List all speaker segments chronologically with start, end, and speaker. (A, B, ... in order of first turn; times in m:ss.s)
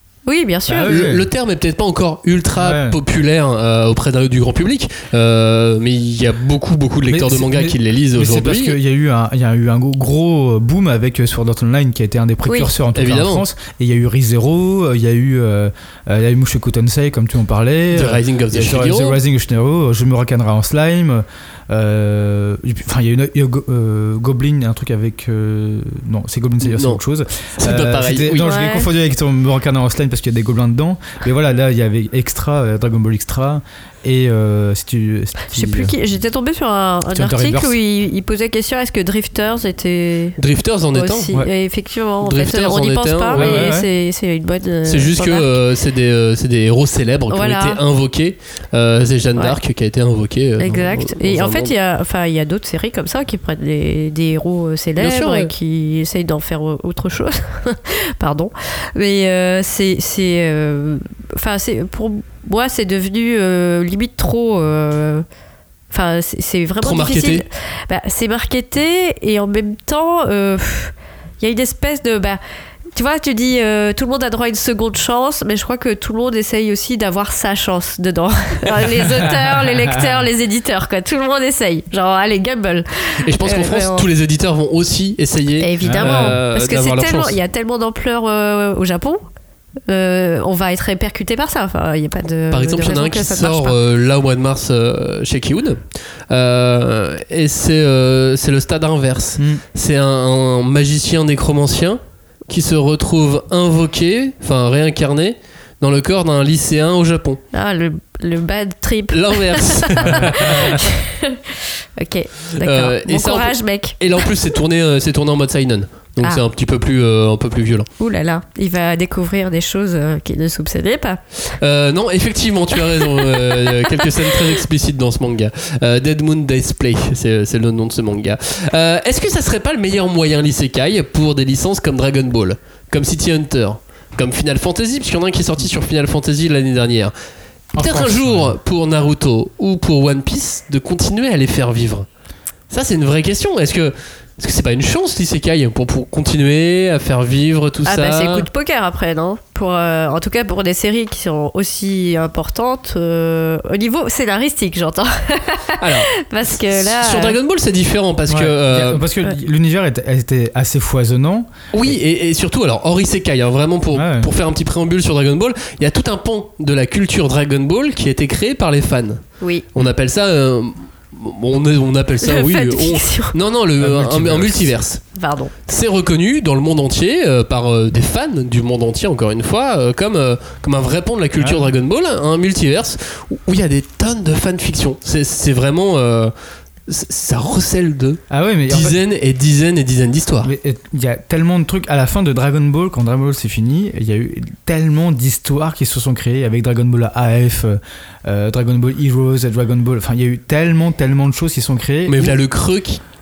0:00.3-0:01.0 A
0:00.7-0:01.3 B
0:00.9-0:08.8 C
0:02.6-0:03.0 B
0:07.1-0:35.9 B
0:12.5-0:12.7 A
0:12.9-0:13.4 C
0:17.9-0:19.2 C
0:26.6-0:27.0 C
0:27.6-0:28.5 C
0:28.4-0:28.9 A
0:35.5-0:40.4 A
0:37.1-0:37.8 B
0:40.4-0:41.3 C
0:40.9-0:45.5 A
0:42.2-0:43.7 C
0:43.3-0:43.9 B
0:44.9-0:51.7 C
0:47.3-0:47.8 A
0:50.6-1:05.2 A
0:55.0-0:55.5 C
1:05.9-1:12.4 A
1:06.8-1:07.4 C
1:13.0-1:24.1 A
1:19.0-1:20.3 B
1:23.2-1:27.4 C
1:25.6-1:29.2 A
1:25.8-1:26.4 B
1:29.9-1:33.8 A
1:32.5-1:47.4 C
1:47.5-1:54.3 A
1:49.1-1:50.8 C
1:50.0-1:50.8 B
1:52.6-1:57.9 C
1:58.0-2:01.2 A
2:01.5-2:17.1 C
2:03.2-2:04.0 A
2:17.7-2:18.6 B
2:17.8-2:22.1 C
2:22.7-2:28.5 C
2:27.8-2:37.4 A
2:35.8-2:36.1 C
2:36.7-2:39.1 C
2:38.3-2:42.0 B
2:41.7-2:49.2 C
2:43.9-2:44.3 B
2:49.4-2:49.7 A
2:49.8-2:55.0 C
2:52.2-2:53.4 A
2:53.8-2:54.8 B
2:55.1-2:55.5 A
2:55.7-3:06.3 C
3:01.4-3:01.7 B
3:06.9-3:10.5 C
3:08.3-3:09.0 B
3:10.4-3:22.4 B
3:22.1-3:23.0 C